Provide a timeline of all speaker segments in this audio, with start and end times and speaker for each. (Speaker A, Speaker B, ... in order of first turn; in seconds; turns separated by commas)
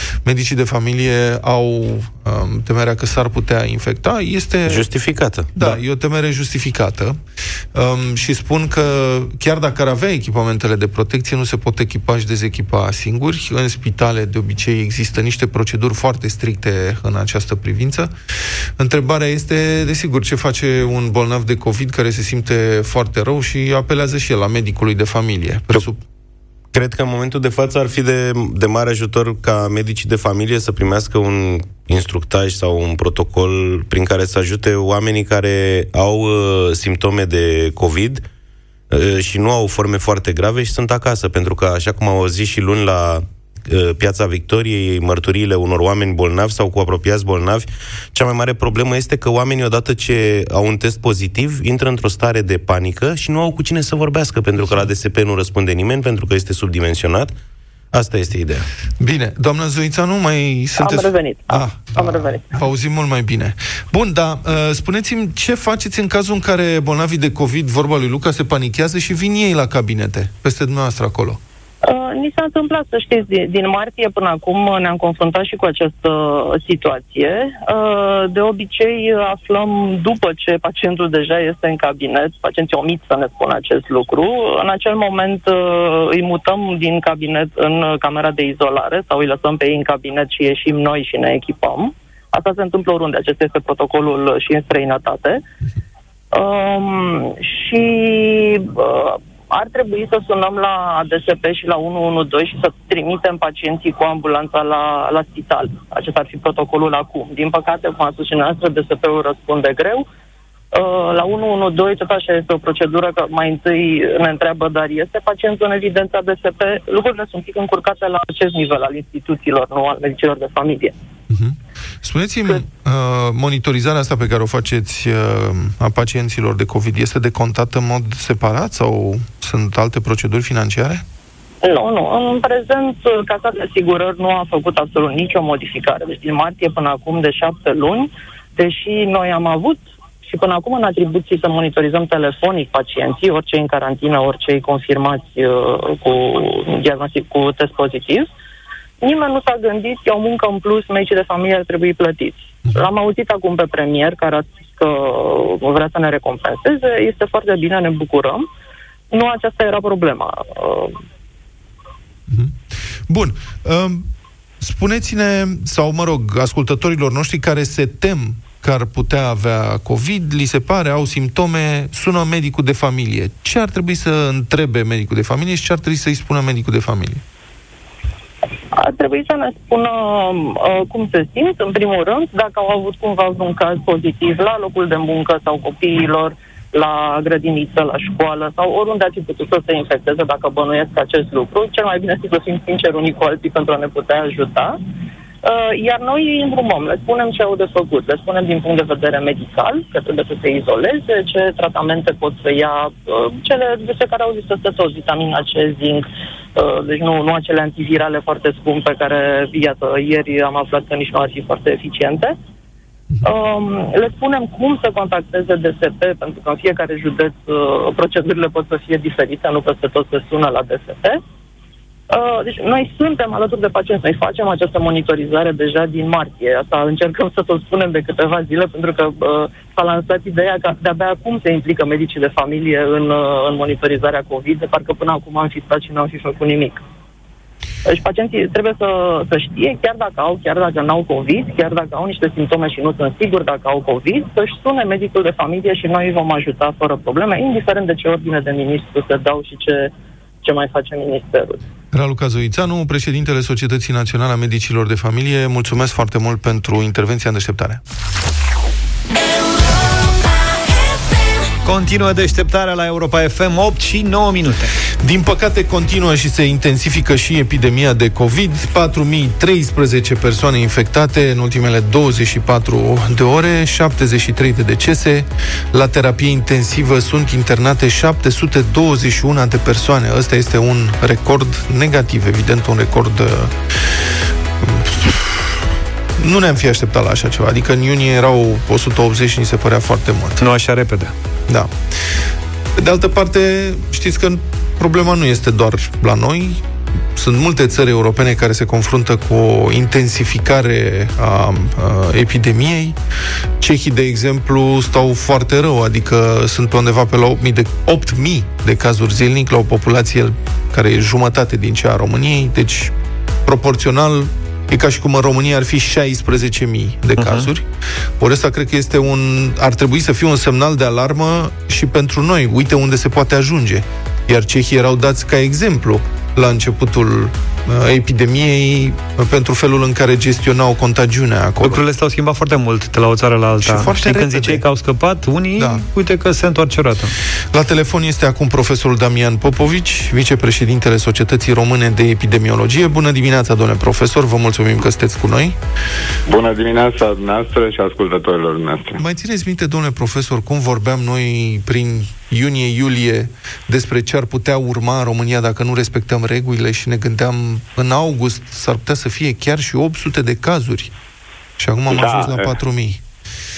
Speaker A: 0.2-4.8, Speaker B: 4.7-5.8, Speaker A: 5.5-7.2, Speaker A: 7.7-18.1, Speaker A: 18.8-26.0, Speaker B: 26.7-38.2, Speaker B: 38.9-57.3, Speaker A: 54.6-54.9, Speaker B: 57.9-58.7, Speaker A: 59.0-71.4, Speaker C: 60.8-62.5, Speaker C: 71.8-95.4, Speaker C: 96.3-110.1, Speaker C: 110.7-120.9, Speaker A: 121.3-131.0, Speaker C: 131.6-148.3, Speaker C: 149.0-158.5, Speaker C: 159.1-161.0, Speaker A: 162.3-164.1, Speaker A: 164.6-177.2, Speaker C: 178.7-194.8, Speaker C: 195.4-212.4, Speaker C: 213.2-221.2, Speaker C: 222.1-236.8, Speaker C: 237.9-249.9, Speaker C: 250.4-251.6, Speaker A: 251.9-257.8, Speaker D: 261.6-264.7, Speaker A: 265.0-283.6, Speaker A: 284.6-285.5, Speaker A: 286.2-290.4, Speaker D: 290.4-291.1, Speaker A: 291.5-291.7, Speaker A: 292.8-296.6, Speaker A: 297.1-303.0, Speaker A: 303.6-312.9, Speaker A: 313.5-317.7, Speaker D: 317.2-317.5, Speaker A: 318.2-331.8, Speaker D: 331.6-337.1, Speaker A: 333.6-334.6, Speaker A: 335.6-335.8, Speaker A: 337.5-345.6, Speaker E: 346.3-349.0, Speaker A: 349.0-360.9, Speaker A: 361.6-363.0, Speaker E: 361.9-362.5